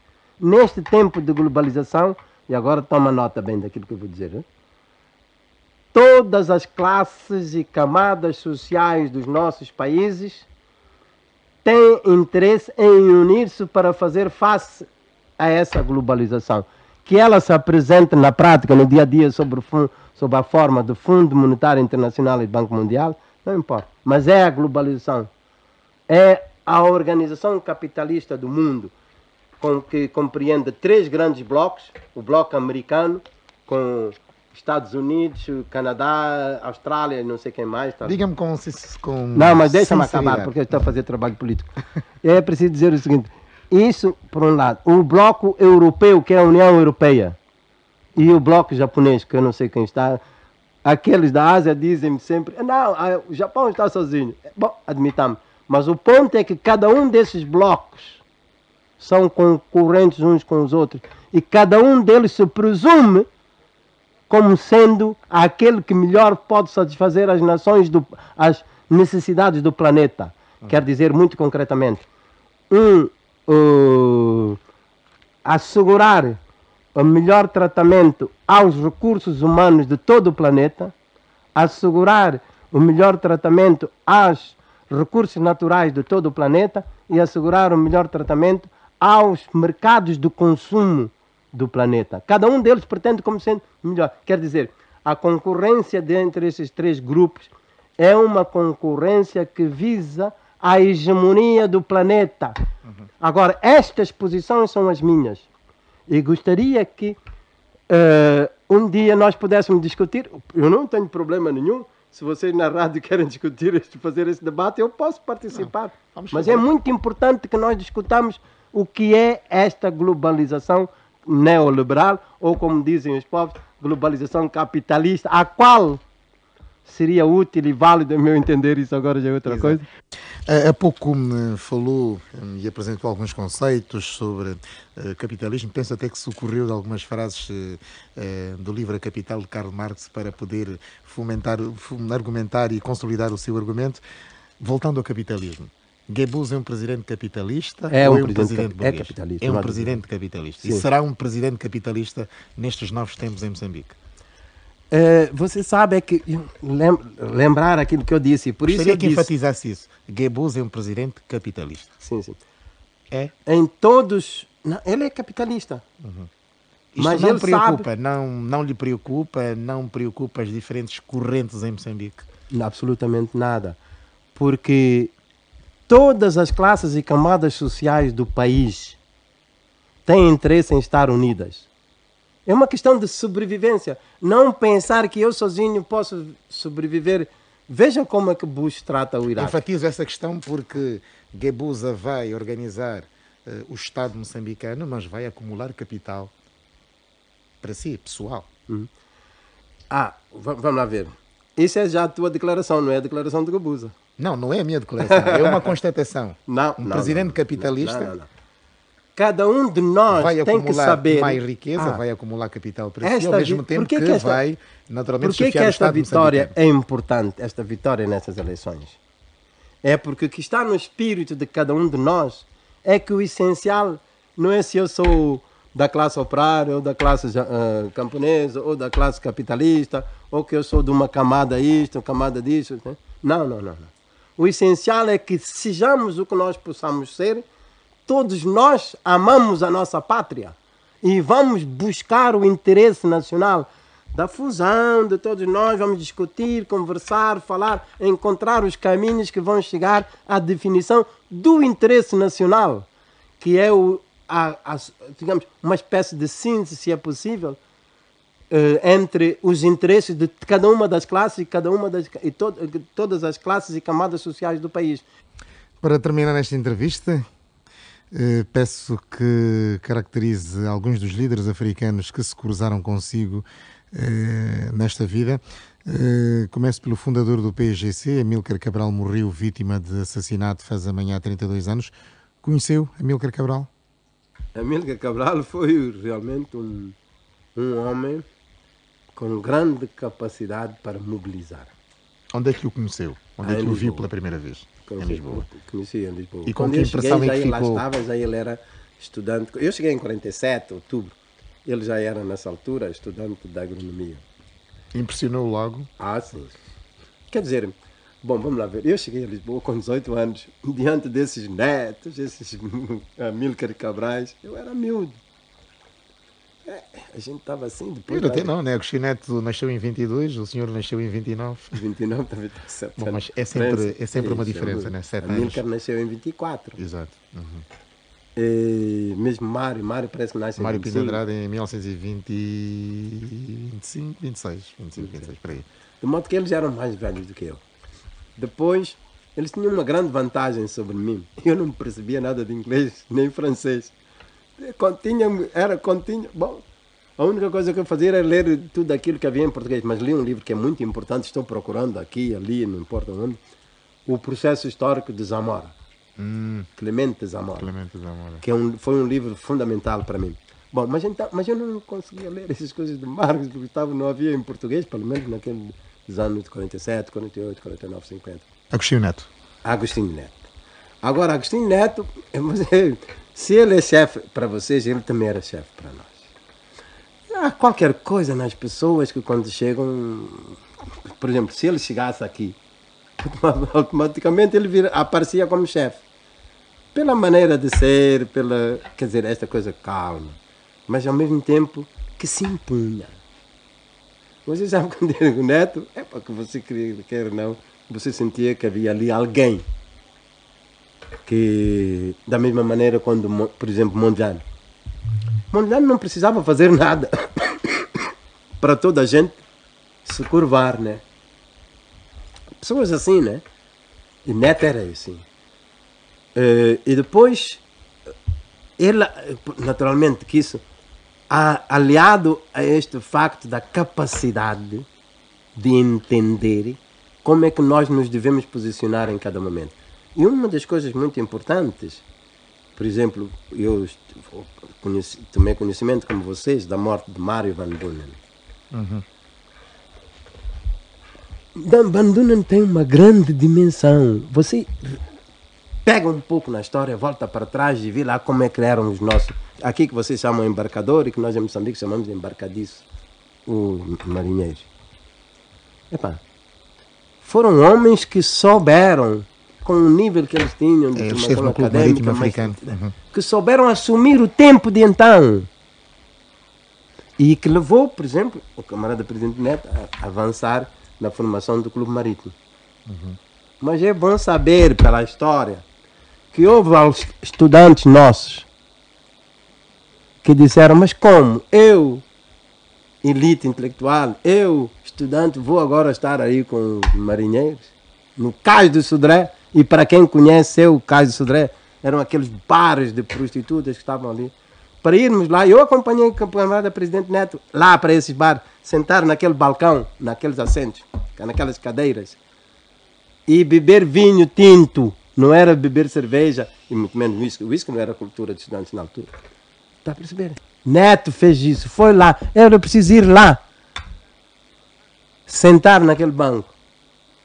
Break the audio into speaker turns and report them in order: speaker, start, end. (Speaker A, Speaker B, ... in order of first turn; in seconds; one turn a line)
Speaker A: 0.4-4.5
Speaker A: 5.9-10.5
Speaker A: 11.7-14.9
Speaker A: 15.4-25.3
Speaker A: 26.1-28.9
Speaker A: 29.6-38.2
Speaker B: 38.0-40.5
Speaker A: 39.4-41.7
Speaker A: 42.2-47.4
Speaker A: 48.2-50.2
Speaker A: 50.8-58.2
Speaker A: 59.0-63.3
Speaker A: 64.3-72.0
Speaker A: 72.7-74.6
Speaker A: 75.5-76.4
Speaker A: 77.0-80.9
Speaker A: 81.5-102.6
Speaker A: 103.2-105.5
Speaker A: 106.1-107.2
Speaker A: 107.9-126.0
Speaker B: 115.5-116.7
Speaker A: 126.8-129.8
Speaker B: 129.5-129.8
Speaker B: 130.5-144.0
Speaker B: 144.6-154.0
Speaker A: 147.9-150.0
Speaker A: 150.6-150.9
Speaker A: 154.9-159.3
Speaker B: 158.7-161.9
Speaker A: 162.0-162.4
Speaker A: 163.5-165.8
Speaker B: 166.0-166.3
Speaker B: 166.9-172.2
Speaker A: 167.0-167.9
Speaker A: 172.5-173.8
Speaker A: 174.3-175.1
Speaker A: 175.9-179.0
Speaker A: 180.1-181.7
Speaker A: 182.5-189.6
Speaker B: 189.4-196.3
Speaker B: 197.6-198.5
Speaker A: 199.9-204.0
Speaker B: 204.2-208.1
Speaker A: 205.0-205.7
Speaker A: 206.5-208.3
Speaker A: 209.2-212.0
Speaker B: 210.1-216.5
Speaker A: 213.0-214.4
Speaker A: 215.2-219.0
Speaker A: 219.8-237.5
Speaker A: 238.1-252.9
Speaker A: 253.4-257.6
Speaker A: 258.5-265.0
Speaker B: 265.8-267.2
Speaker B: 268.1-283.7
Speaker A: 284.6-286.9
Speaker A: 287.6-288.2
Speaker A: 289.1-291.7
Speaker B: 292.3-295.4
Speaker A: 293.4-294.1
Speaker A: 294.9-304.2
Speaker B: 296.5-297.9
Speaker B: 304.9-305.9
Speaker A: 306.0-306.6
Speaker A: 307.3-315.2
Speaker A: 316.7-318.5
Speaker B: 318.1-321.8
Speaker A: 321.7-326.8
Speaker B: 323.0-325.6
Speaker B: 326.8-327.6
Speaker A: 328.4-331.2
Speaker B: 330.6-335.7
Speaker A: 336.0-337.6
Speaker A: 338.4-343.9
Speaker A: 344.6-346.6
Speaker A: 347.2-353.4
Speaker A: 354.1-355.7
Speaker B: 356.2-356.7
Speaker A: 356.8-357.7
Speaker B: 357.6-358.4
Speaker A: 358.4-368.5
Speaker B: 368.7-369.3
Speaker A: 369.6-370.4
Speaker A: 371.0-376.3
Speaker A: 377.3-382.6
Speaker A: 383.2-386.0
Speaker A: 386.9-393.2
Speaker A: 394.5-399.6
Speaker A: 401.3-404.4
Speaker A: 405.5-408.0
Speaker A: 408.6-409.4
Speaker A: 410.1-411.0
Speaker A: 412.6-413.4
Speaker A: 414.3-415.2
Speaker A: 416.4-417.6
Speaker A: 418.8-420.6
Speaker A: 421.3-424.9
Speaker A: 425.6-432.1
Speaker A: 432.8-438.2
Speaker B: 438.7-439.1
Speaker A: 441.6-445.0
Speaker A: 445.9-452.9
Speaker A: 453.5-454.7
Speaker A: 455.9-456.2
Speaker A: 457.2-465.5
Speaker B: 461.0-462.9
Speaker A: 467.2-472.3
Speaker B: 472.9-473.2
Speaker A: 473.6-475.6
Speaker A: 476.3-478.5
Speaker A: 480.2-482.1
Speaker A: 483.0-502.2
Speaker A: 503.3-509.1
Speaker A: 509.9-513.4
Speaker A: 515.3-516.5